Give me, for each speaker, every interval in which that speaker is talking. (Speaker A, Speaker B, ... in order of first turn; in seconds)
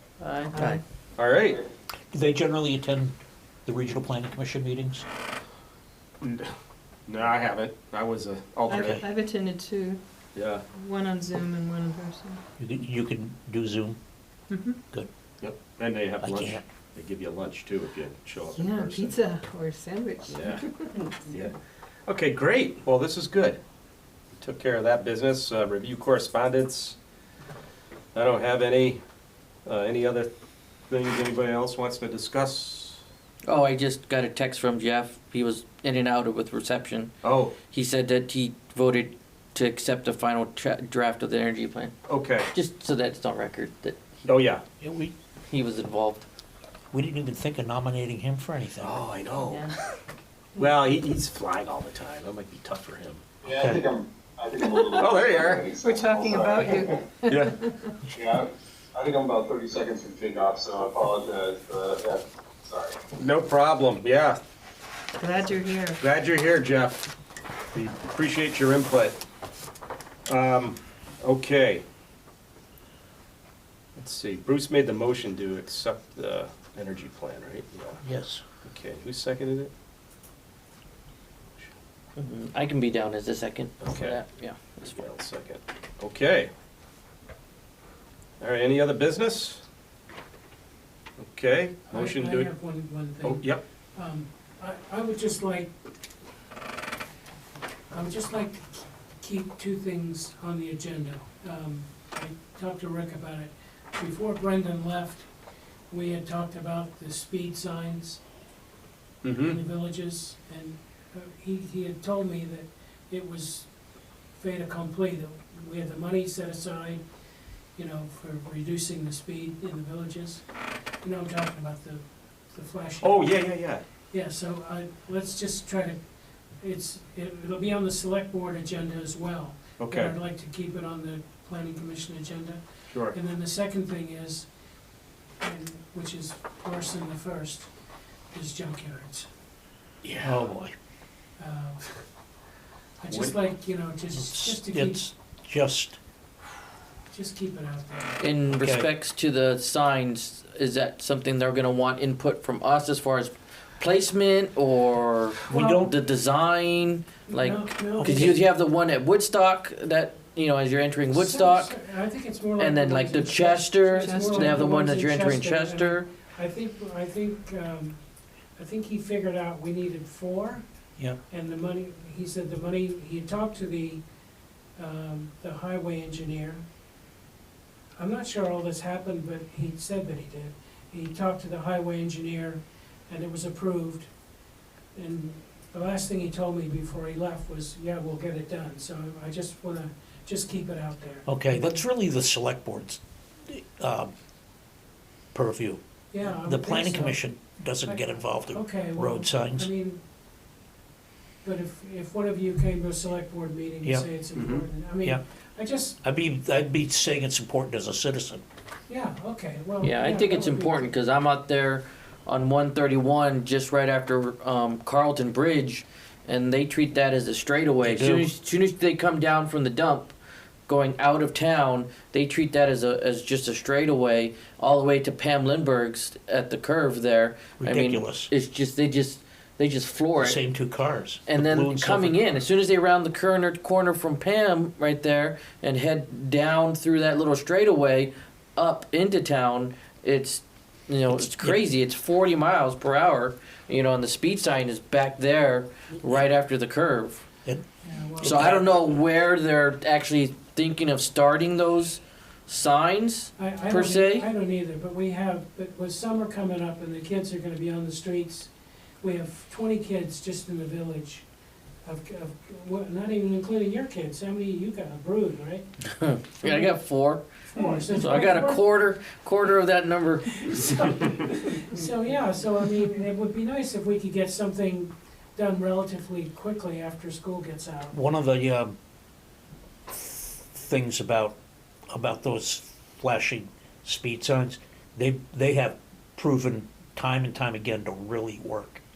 Speaker A: 0.2-0.8, 33.5-37.1, 37.7-41.9, 42.5-44.2, 45.5-46.2, 82.2-85.0, 148.2-161.7, 162.6-166.1, 209.8-220.1, 220.7-230.4, 231.3-247.2, 248.2-254.3, 265.9-267.2, 267.9-271.6
Speaker B: 0.5-0.8, 8.7-10.0, 10.7-12.4, 14.5-14.8, 18.5-21.1, 55.8-57.7, 65.2-66.0, 164.0-164.7
Speaker C: 1.2-1.6, 6.2-6.5, 7.0-9.0, 10.3-10.6, 15.4-19.1, 20.3-20.6, 21.1-21.5, 22.1-23.6, 24.3-27.0, 28.1-29.0, 29.6-30.3, 30.9-33.0, 37.2-37.5, 42.1-42.5, 44.2-44.6, 48.8-49.8, 50.5-53.5, 54.9-55.7, 57.2-57.6, 63.1-64.4, 66.0-67.0, 67.7-69.2, 70.3-71.8, 74.0-78.0, 78.6-79.7, 83.8-84.2, 84.9-86.5, 88.4-89.6, 91.2-92.5, 93.2-93.6, 109.2-109.6, 123.0-123.8, 129.8-130.1, 132.9-133.2, 140.0-140.4, 143.1-143.4, 204.3-204.6
Speaker D: 2.1-3.1, 3.6-5.0, 8.8-9.0, 12.6-14.0, 16.2-16.6, 44.8-45.1, 46.9-49.0, 53.5-53.8, 78.0-78.4, 140.2-140.7, 144.1-146.0, 148.5-148.9, 155.5-155.9, 157.9-158.4, 191.2-194.1, 195.3-199.7, 206.0-208.4, 217.8-218.3, 227.6-228.3, 230.2-232.2, 241.1-241.6, 248.2-249.0, 277.9-278.8, 279.9-281.4, 281.9-288.8
Speaker E: 53.4-57.0, 58.1-63.0
Speaker F: 91.9-95.7, 97.9-105.3, 105.9-108.2, 109.3-113.7, 114.3-117.0, 117.7-120.4, 121.0-123.4, 124.1-126.0, 126.6-134.5, 135.4-137.7, 138.3-139.3, 141.4-142.1, 143.0-145.0, 147.1-148.2, 155.5-155.9, 157.3-158.4, 161.1-168.0, 168.6-170.6, 171.3-174.0, 174.8-176.6, 178.0-184.1, 184.9-191.8, 196.1-197.2, 197.8-200.0, 201.4-206.0, 208.9-211.0, 247.8-248.5, 253.4-258.5, 259.0-261.2, 261.8-265.7, 266.4-266.8, 267.5-268.8, 270.5-277.9